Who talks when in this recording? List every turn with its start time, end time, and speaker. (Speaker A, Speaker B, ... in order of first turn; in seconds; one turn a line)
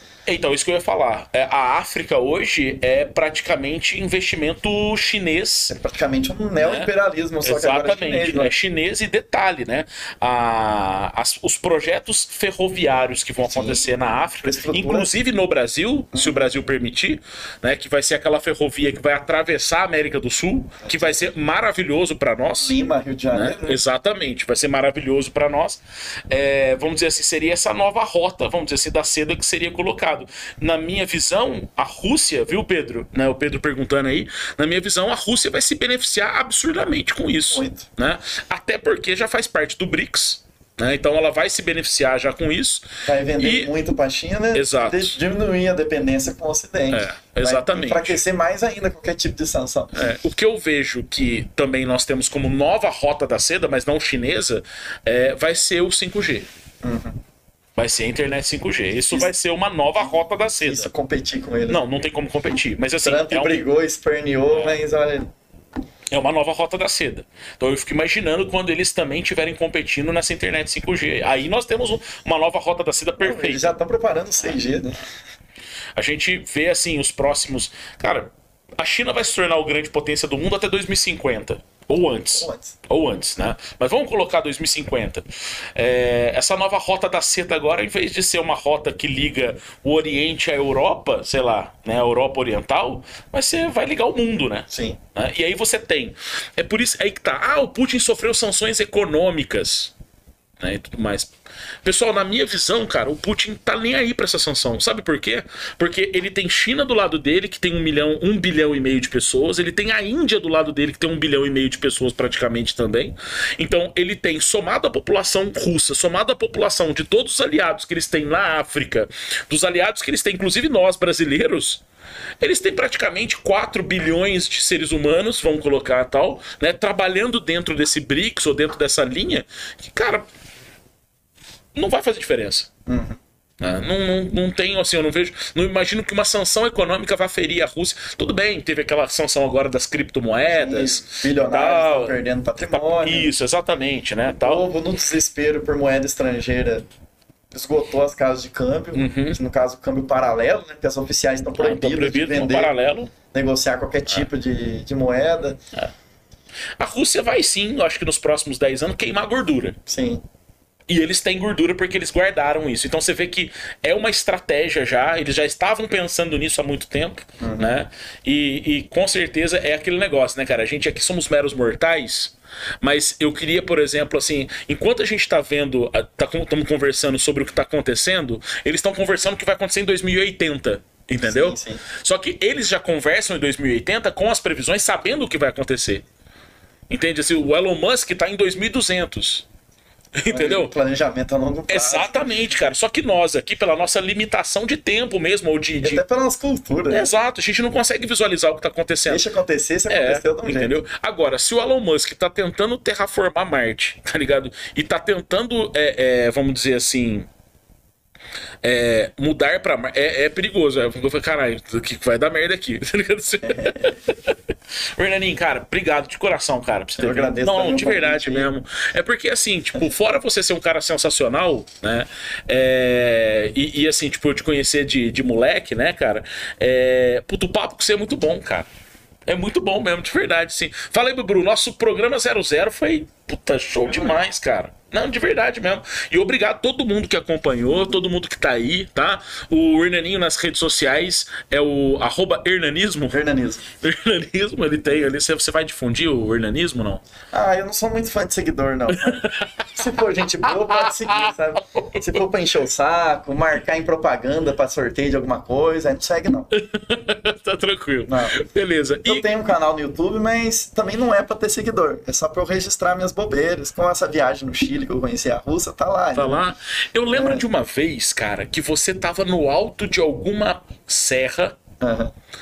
Speaker A: 0.3-5.7
Speaker B: 5.7-8.5
Speaker A: 6.6-6.9
Speaker A: 7.4-22.8
Speaker B: 13.4-15.1
Speaker B: 16.1-16.4
Speaker B: 20.8-21.3
Speaker B: 22.6-23.8
Speaker A: 23.3-42.9
Speaker B: 37.4-37.9
Speaker B: 43.0-50.0
Speaker A: 43.4-43.7
Speaker A: 44.5-45.2
Speaker A: 46.9-48.2
Speaker A: 49.9-56.5
Speaker B: 56.8-57.2
Speaker A: 57.8-60.9
Speaker B: 60.6-61.8
Speaker A: 61.7-63.6
Speaker B: 63.0-65.3
Speaker A: 64.5-64.8
Speaker A: 66.1-73.8
Speaker B: 73.2-75.0
Speaker A: 76.0-99.9
Speaker B: 82.3-82.8
Speaker B: 94.7-95.0
Speaker A: 100.6-101.3
Speaker A: 101.8-121.8
Speaker A: 122.4-130.3
Speaker A: 131.8-132.7
Speaker B: 132.9-133.2
Speaker A: 133.6-144.6
Speaker B: 140.5-143.3
Speaker B: 144.3-146.9
Speaker B: 147.5-155.6
Speaker A: 148.9-149.4
Speaker A: 151.6-153.1
Speaker A: 156.8-159.8
Speaker B: 159.9-160.2
Speaker A: 160.9-186.1
Speaker B: 167.4-167.8
Speaker B: 181.2-181.8
Speaker A: 186.9-189.5
Speaker A: 190.2-190.7
Speaker B: 190.3-192.7
Speaker A: 191.7-196.0
Speaker B: 195.8-197.1
Speaker A: 196.9-199.2
Speaker B: 199.1-200.8
Speaker A: 199.9-207.3
Speaker A: 208.6-214.4
Speaker B: 213.4-214.0
Speaker A: 214.9-228.7
Speaker B: 217.0-218.5
Speaker A: 229.3-243.2
Speaker B: 233.9-234.2
Speaker B: 243.1-243.7
Speaker A: 243.8-247.0
Speaker B: 247.3-256.5
Speaker A: 248.9-249.7
Speaker A: 250.4-252.2
Speaker A: 256.5-259.3
Speaker B: 258.1-258.4
Speaker B: 259.1-266.4
Speaker A: 266.1-271.6
Speaker B: 267.1-267.4
Speaker B: 271.8-272.1